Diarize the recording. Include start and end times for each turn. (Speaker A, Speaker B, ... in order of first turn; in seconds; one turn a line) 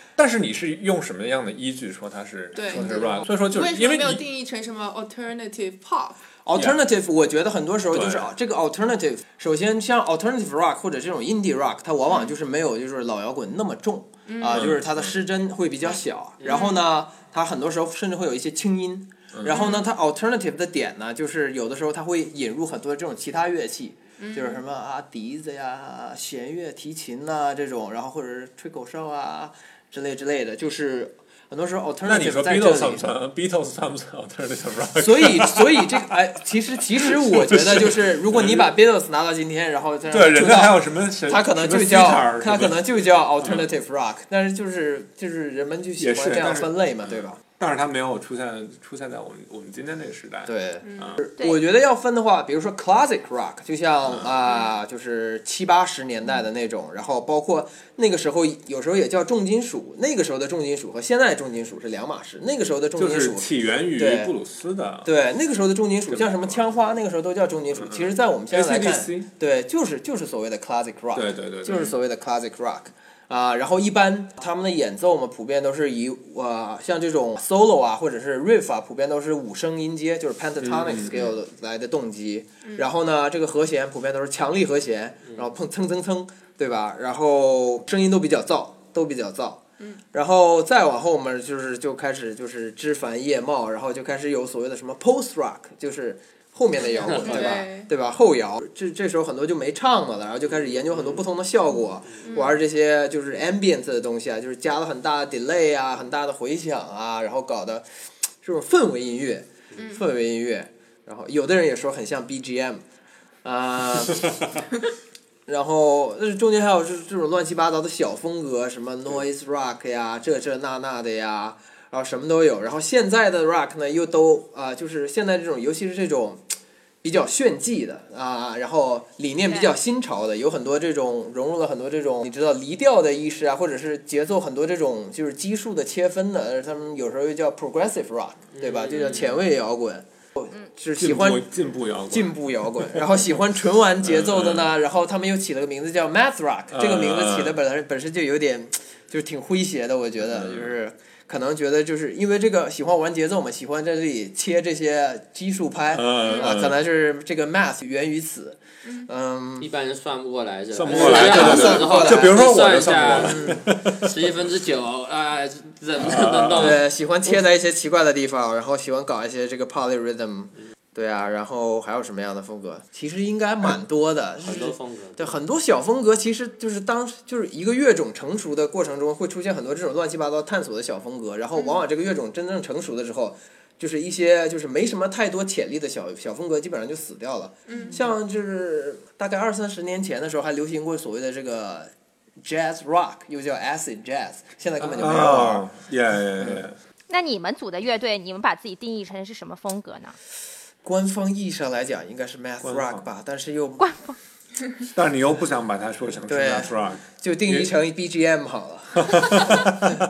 Speaker A: 0.2-4.2
Speaker B: 2.5-6.2
Speaker C: 2.7-3.2
Speaker C: 6.5-33.1
Speaker A: 7.9-8.3
Speaker B: 12.1-12.3
Speaker B: 14.3-14.6
Speaker A: 14.5-15.1
Speaker B: 16.4-16.8
Speaker B: 19.5-19.9
Speaker B: 24.2-24.6
Speaker A: 32.0-36.0
Speaker C: 35.0-47.4
Speaker A: 37.1-38.7
Speaker A: 40.1-42.8
Speaker A: 43.4-43.6
Speaker A: 46.0-51.2
Speaker C: 50.5-64.3
Speaker B: 50.8-51.1
Speaker A: 63.0-65.1
Speaker C: 65.0-89.6
Speaker A: 66.1-66.6
Speaker A: 67.8-69.3
Speaker A: 71.1-71.9
Speaker A: 80.6-81.3
Speaker B: 82.6-82.9
Speaker C: 90.1-107.8
Speaker B: 96.8-97.9
Speaker B: 102.2-102.6
Speaker C: 108.4-112.8
Speaker B: 109.8-110.0
Speaker C: 113.4-114.4
Speaker C: 115.5-126.4
Speaker C: 127.0-141.4
Speaker D: 138.5-139.2
Speaker A: 141.0-143.2
Speaker C: 142.1-159.7
Speaker A: 144.1-144.7
Speaker A: 146.7-147.6
Speaker A: 150.3-150.7
Speaker A: 155.9-156.7
Speaker B: 156.2-156.5
Speaker D: 159.6-166.7
Speaker A: 160.7-164.1
Speaker C: 160.9-162.4
Speaker C: 163.2-163.6
Speaker A: 166.0-166.8
Speaker C: 166.5-191.9
Speaker D: 174.4-175.3
Speaker B: 181.5-181.8
Speaker B: 187.7-188.1
Speaker C: 192.4-195.7
Speaker A: 194.8-196.8
Speaker C: 196.4-196.6
Speaker E: 197.1-200.1
Speaker C: 200.8-203.9
Speaker A: 202.6-203.0
Speaker E: 203.8-204.1
Speaker A: 204.9-207.7
Speaker C: 206.3-209.5
Speaker A: 209.0-209.8